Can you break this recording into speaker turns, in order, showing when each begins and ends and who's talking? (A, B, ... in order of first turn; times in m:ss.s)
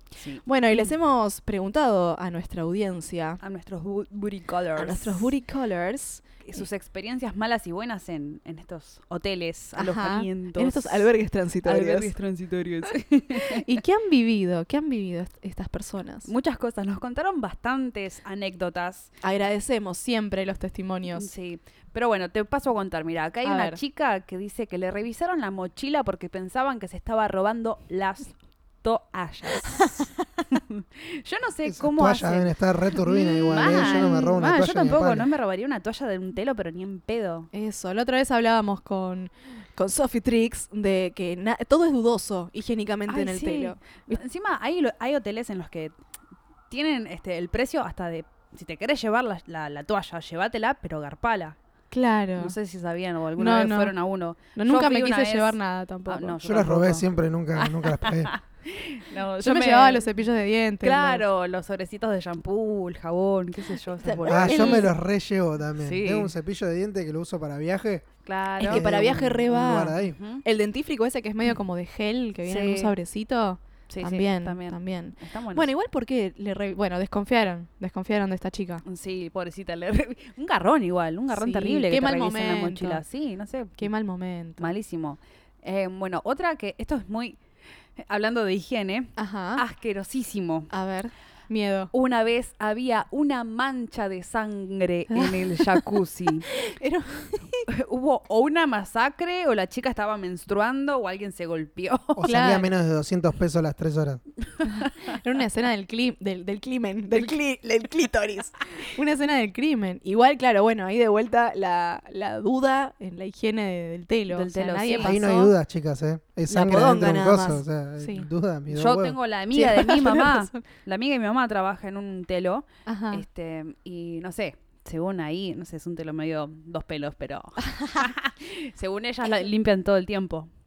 0:00.2-0:00.9 A
0:00.4-0:03.4 B
0:03.4-0:05.3 A
0:04.8-0:06.6 B
0:06.4-0:11.1 A
0:09.8-0:12.1 B
0:11.6-0:13.6 A
0:13.5-0:16.3 B
0:16.2-0:19.1 A
0:19.2-0:21.3 B
0:21.1-0:29.9 A
0:23.4-0:23.8 B
0:29.7-0:30.0 B
0:30.5-0:37.5 A
0:31.6-0:35.3 C
0:33.5-0:34.3 B
0:37.5-0:44.2 B
0:43.1-0:45.9 A
0:46.7-0:51.6 A
0:51.9-0:52.5 B
0:52.4-1:00.1 A
0:53.4-0:53.9 B
0:54.5-0:56.4 B
0:56.4-0:58.3 C
0:59.4-1:01.2 B
1:00.8-1:04.9 A
1:04.0-1:04.9 B
1:04.2-1:08.0 C
1:05.8-1:06.3 A
1:08.2-1:08.8 A
1:08.6-1:10.2 C
1:08.6-1:18.8 B
1:10.0-1:10.4 A
1:12.4-1:12.9 A
1:13.9-1:15.7 A
1:18.8-1:23.9 A
1:21.3-1:23.0 B
1:23.8-1:24.7 B
1:24.6-1:27.4 A
1:28.0-1:30.7 A
1:29.2-1:29.6 B
1:30.7-1:31.9 B
1:31.9-1:36.4 A
1:35.1-1:35.9 B
1:36.5-1:37.7 B
1:37.7-1:42.2 A
1:42.1-1:44.2 C
1:42.2-1:42.7 B
1:44.6-1:45.1 A
1:45.0-1:55.5 B
1:54.3-1:55.2 A
1:55.0-1:59.2 C
1:56.5-1:58.3 B
1:58.7-2:10.5 A
1:59.5-2:00.6 B
2:02.8-2:03.2 B
2:07.6-2:08.1 B